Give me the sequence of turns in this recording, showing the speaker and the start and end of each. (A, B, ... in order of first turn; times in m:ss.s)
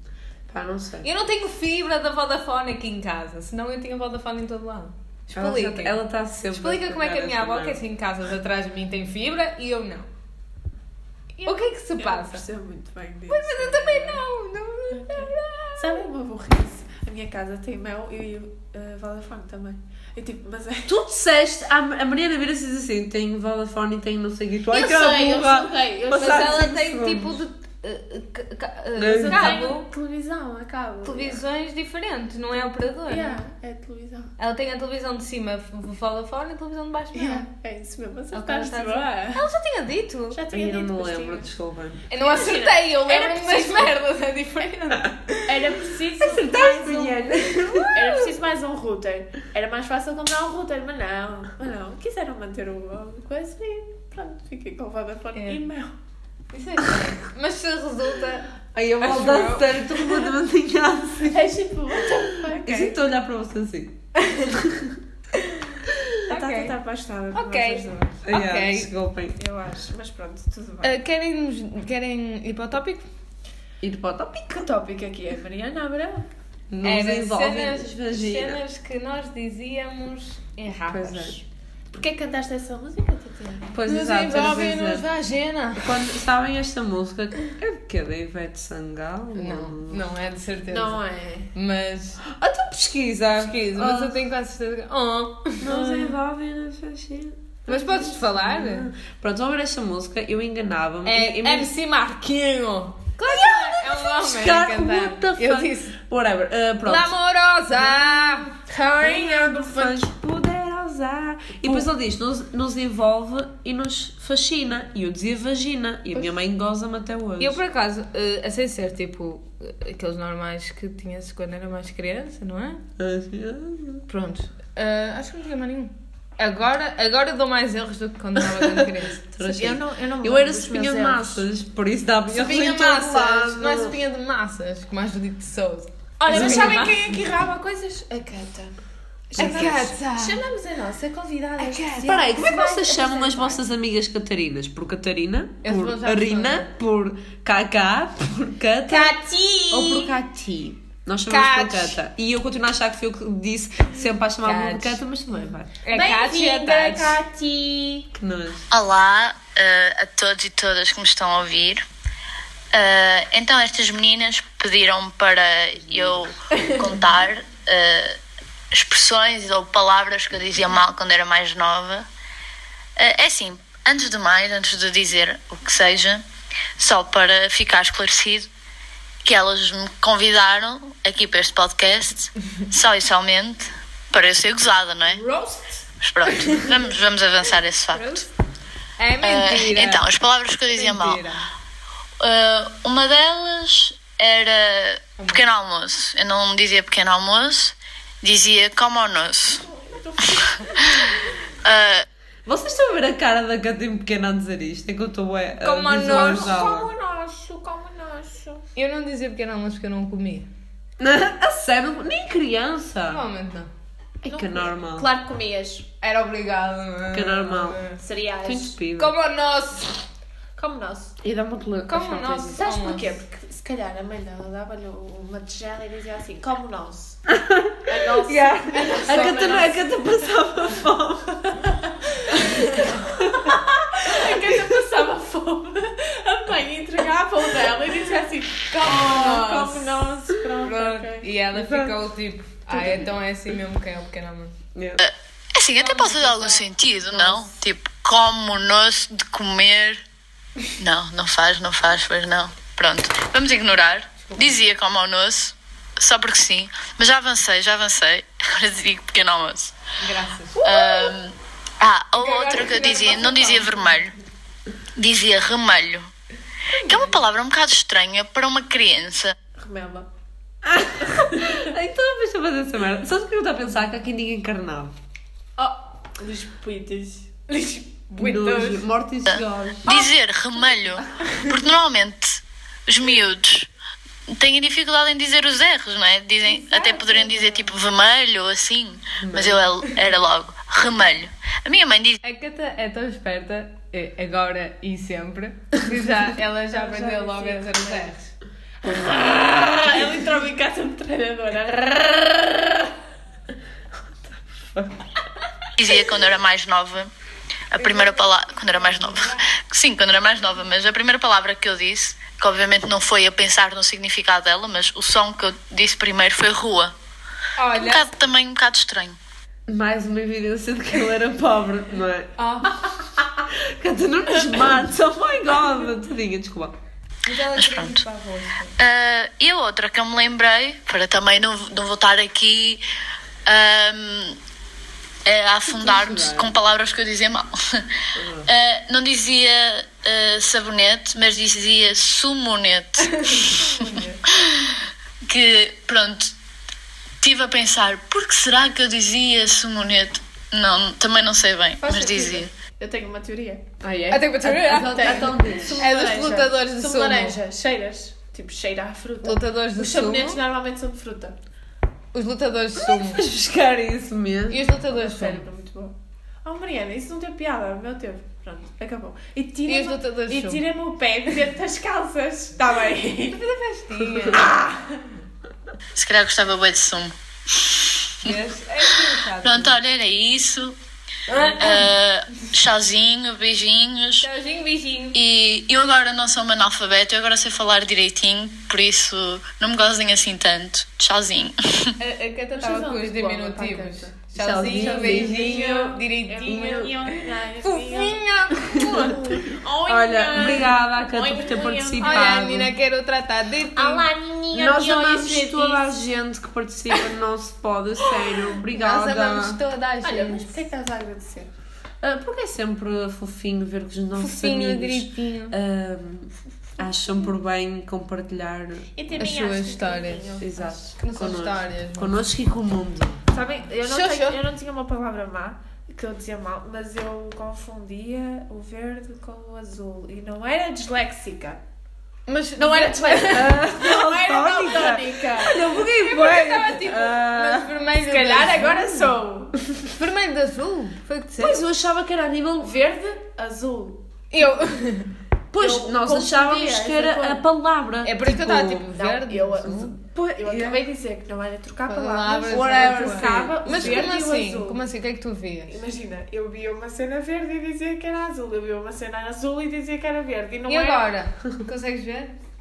0:00.5-0:01.1 A
0:01.0-0:06.0 B
0:05.3-0:07.8 A
0:06.5-0:10.1 B
0:11.4-0:14.2 C
0:11.5-0:12.4 B
0:13.3-0:16.0 B
0:14.9-0:20.9 C
0:20.9-0:27.4 A
0:24.7-0:26.7 C
0:26.1-0:29.9 B
0:29.0-0:29.6 A
0:29.1-0:31.4 C
0:31.0-0:33.4 B
0:33.1-0:34.3 C
0:34.4-0:37.5 B
0:37.1-0:39.5 C
0:38.3-0:40.4 B
0:40.3-0:41.5 C
0:40.5-0:42.0 A
0:42.1-0:45.6 B
0:42.1-0:44.0 C
0:45.5-0:47.3 C
0:46.2-0:48.1 A
0:47.3-0:48.0 B
0:47.9-0:55.9 C
0:55.4-0:55.6 B
0:56.5-1:00.3 B
0:58.7-1:05.0 A
1:01.3-1:03.0 C
1:04.2-1:04.5 B
1:05.4-1:06.8 B
1:06.3-1:08.2 C
1:07.3-1:08.9 B
1:08.2-1:09.4 A
1:09.4-1:11.0 C
1:10.8-1:13.0 B
1:13.8-1:14.7 A
1:14.6-1:16.3 C
1:16.7-1:18.6 A
1:16.8-1:21.4 B
1:20.9-1:21.4 A
1:21.9-1:23.8 C
1:23.7-1:25.0 A
1:23.8-1:26.1 B
1:25.8-1:30.0 A
1:29.4-1:31.0 B
1:30.7-1:31.5 C
1:31.5-1:32.2 B
1:32.2-1:34.2 A
1:33.3-1:36.0 B
1:35.6-1:41.7 A
1:37.7-1:38.9 B
1:41.0-1:46.0 B
1:43.2-1:47.1 A
1:46.8-1:48.5 B
1:47.8-1:48.4 A
1:48.6-1:50.1 C
1:49.0-1:57.6 A
1:57.4-2:02.8 B
2:03.0-2:04.0 A
2:04.1-2:09.3 B
2:08.4-2:14.0 A
2:09.4-2:11.4 C
2:12.3-2:17.0 B
2:16.2-2:18.8 C
2:16.3-2:16.9 A
2:19.3-2:23.6 C
2:19.4-2:19.9 A
2:19.4-2:20.4 B
2:21.6-2:22.2 B
2:22.0-2:29.2 A
2:25.6-2:26.7 B
2:28.9-2:29.2 B
2:28.9-2:30.0 C
2:29.7-2:35.8 A
2:31.3-2:32.0 B
2:34.4-2:35.0 B
2:35.8-2:37.2 B
2:35.9-2:38.1 C
2:38.1-2:38.7 A
2:38.7-2:41.8 D
2:42.7-2:48.2 D
2:48.7-2:52.1 D
2:53.0-2:56.2 D
2:56.8-2:58.5 D
2:59.2-3:05.2 D
3:05.1-3:05.7 B
3:06.0-3:08.2 D
3:06.3-3:06.7 B
3:07.9-3:08.3 B
3:09.0-3:10.1 B
3:09.2-3:11.2 D
3:10.7-3:11.5 B
3:12.2-3:19.6 D
3:15.2-3:15.4 B
3:19.5-3:21.0 C
3:21.0-3:22.1 D
3:22.5-3:26.9 A
3:25.6-3:26.6 B
3:26.0-3:28.6 C
3:28.8-3:30.5 B
3:31.0-3:33.2 A
3:33.1-3:33.7 B
3:34.2-3:35.1 A
3:34.3-3:35.9 C
3:36.0-3:38.0 B
3:37.1-3:37.8 A
3:38.0-3:38.8 C
3:38.4-3:39.2 A
3:39.0-3:40.0 B
3:40.6-3:41.2 C
3:41.2-3:42.6 A
3:41.9-3:43.1 B
3:42.6-3:47.2 C
3:47.3-3:51.5 A
3:47.8-3:49.9 C
3:48.7-3:49.8 B
3:51.6-4:01.3 C
3:52.5-3:53.6 A
3:54.2-3:54.6 A
3:58.9-3:59.9 B
4:00.6-4:04.6 B
4:01.5-4:02.0 A
4:02.7-4:03.0 A
4:04.8-4:05.0 A
4:05.0-4:10.0 D
4:05.8-4:07.5 B
4:10.8-4:19.8 D
4:14.2-4:14.6 B
4:20.0-4:21.0 B
4:20.6-4:24.1 D
4:22.2-4:24.0 B
4:25.0-4:26.1 D
4:26.8-4:29.4 D
4:26.8-4:27.2 B
4:29.6-4:30.1 C
4:30.6-4:35.0 A
4:31.0-4:31.7 C
4:35.6-4:37.8 C
4:37.9-4:38.8 B
4:38.2-4:40.1 A
4:39.3-4:43.7 D
4:44.3-4:52.2 D
4:46.5-4:47.7 C
4:49.2-4:49.7 A
4:52.2-4:58.3 B
4:56.7-4:58.1 C
4:58.8-5:02.9 C
5:04.2-5:05.0 A
5:05.8-5:07.1 D
5:07.7-5:16.9 D
5:07.8-5:08.2 B
5:17.6-5:18.1 B
5:17.7-5:19.2 D
5:19.7-5:26.8 A
5:22.4-5:22.9 B
5:27.2-5:28.8 B
5:27.5-5:28.0 D
5:28.8-5:32.8 D
5:33.5-5:34.4 D
5:35.2-5:43.6 D
5:35.7-5:36.6 A
5:38.2-5:38.5 A
5:43.1-5:44.2 B
5:43.6-5:44.2 C
5:44.3-5:46.3 D
5:47.2-5:52.5 D
5:51.8-5:52.5 B
5:52.8-5:53.8 C
5:53.8-5:55.8 A
5:54.1-5:57.4 B
5:54.7-6:01.4 C
5:59.2-6:00.4 B
6:02.1-6:03.2 B
6:02.8-6:04.6 A
6:04.5-6:05.4 B
6:04.9-6:13.4 C
6:09.7-6:10.6 B
6:13.3-6:14.6 B
6:14.0-6:14.5 A
6:14.3-6:15.0 C
6:16.0-6:18.4 D
6:18.2-6:19.8 B
6:19.4-6:20.8 D
6:21.3-6:21.9 B
6:21.6-6:24.3 D
6:24.2-6:25.2 B
6:25.1-6:31.9 D
6:32.0-6:39.4 B
6:32.5-6:42.5 C
6:34.4-6:36.9 A
6:39.9-6:42.7 A
6:42.0-6:44.1 B
6:43.7-6:46.0 C
6:44.5-6:49.6 A
6:48.6-6:50.6 B
6:50.0-6:51.5 C
6:52.0-6:58.9 A
6:54.2-6:55.6 B
6:59.0-7:00.9 C
6:59.2-7:02.2 B
7:00.4-7:03.2 A
7:03.3-7:11.6 C
7:03.9-7:04.4 B
7:12.3-7:13.7 B
7:12.6-7:15.6 C
7:13.3-7:17.7 A
7:15.4-7:19.1 B
7:18.0-7:19.6 C
7:19.9-7:21.6 B
7:21.4-7:22.7 A
7:22.6-7:24.0 C
7:24.3-7:25.1 B
7:25.5-7:28.9 A
7:25.6-7:27.4 C
7:28.0-7:29.9 B
7:28.9-7:34.8 C
7:29.9-7:30.8 A
7:31.9-7:35.8 B
7:32.5-7:34.1 A
7:35.7-7:41.2 C
7:40.7-7:42.4 B